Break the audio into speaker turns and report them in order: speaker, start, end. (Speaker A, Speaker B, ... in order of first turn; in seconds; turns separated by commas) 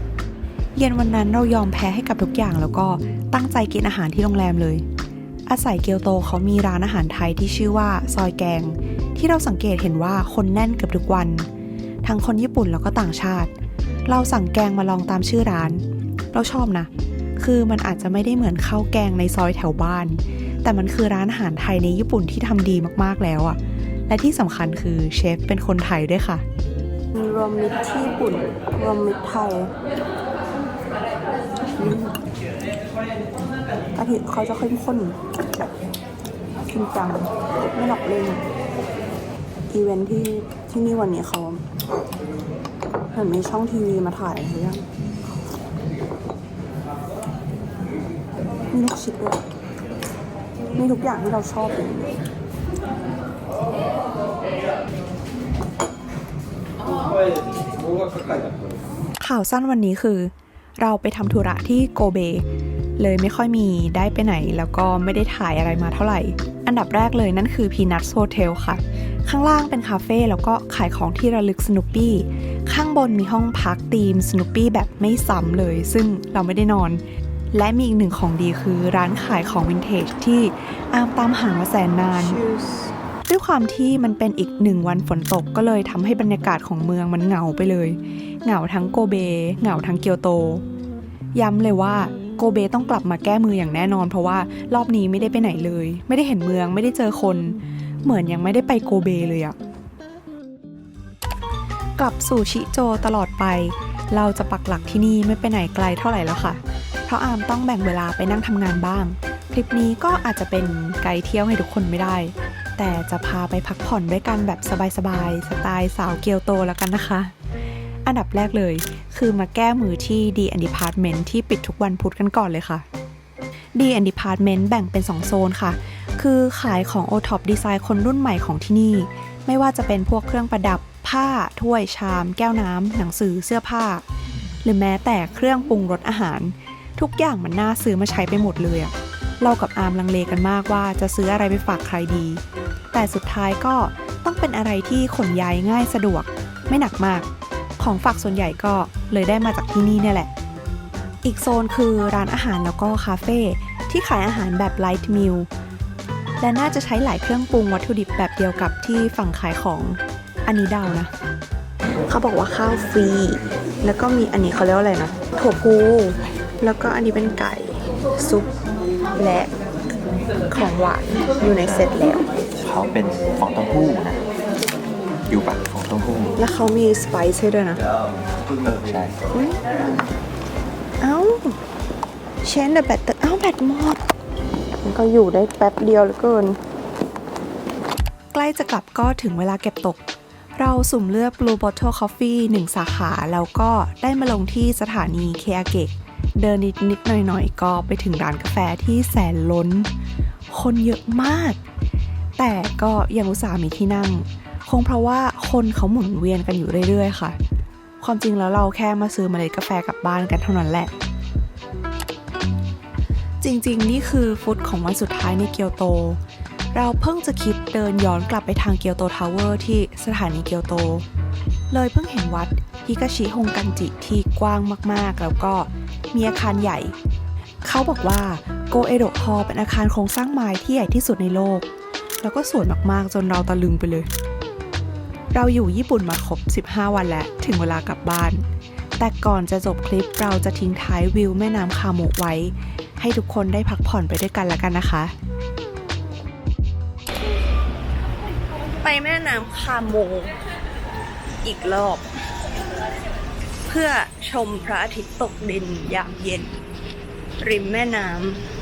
Speaker A: 0.8-4.8, Speaker A: 5.5-11.5, Speaker A: 12.0-13.5, Speaker A: 14.1-23.6, Speaker A: 24.1-26.4, Speaker B: 27.1-29.7, Speaker B: 31.8-32.2, Speaker B: 33.9-35.2, Speaker B: 36.7-38.5, Speaker B: 39.7-41.6, Speaker B: 43.1-44.9, Speaker B: 48.7-49.4, Speaker B: 50.7-52.1, Speaker A: 59.2-62.4, Speaker A: 63.0-77.0, Speaker A: 77.5-82.4, Speaker B: 82.3-82.9, Speaker A: 83.3-90.6, Speaker A: 91.3-99.5, Speaker A: 102.0-117.3, Speaker A: 118.0-122.8, Speaker A: 123.8-134.0, Speaker A: 134.6-142.4, Speaker A: 142.9-150.3, Speaker A: 151.2-155.5, Speaker A: 156.4-161.1, Speaker B: 162.1-168.5, Speaker B: 169.2-169.5, Speaker B: 170.5-172.2, Speaker C: 172.6-174.2, Speaker C: 175.3-176.3, Speaker B: 176.4-177.8, Speaker C: 178.5-179.2, Speaker B: 179.3-179.9, Speaker B: 181.0-181.6, Speaker B: 182.4-184.0, Speaker B: 184.8-186.6, Speaker A: 188.3-190.0, Speaker A: 190.6-199.9, Speaker A: 200.5-201.6, Speaker A: 202.4-207.4, Speaker A: 208.0-210.9, Speaker A: 213.4-216.2, Speaker A: 216.7-221.1, Speaker A: 221.7-226.9, Speaker A: 227.6-231.7, Speaker A: 232.2-234.1, Speaker A: 235.3-238.4, Speaker A: 239.0-245.1, Speaker B: 248.8-250.3, Speaker B: 251.4-252.1, Speaker B: 253.7-256.6, Speaker B: 257.4-258.4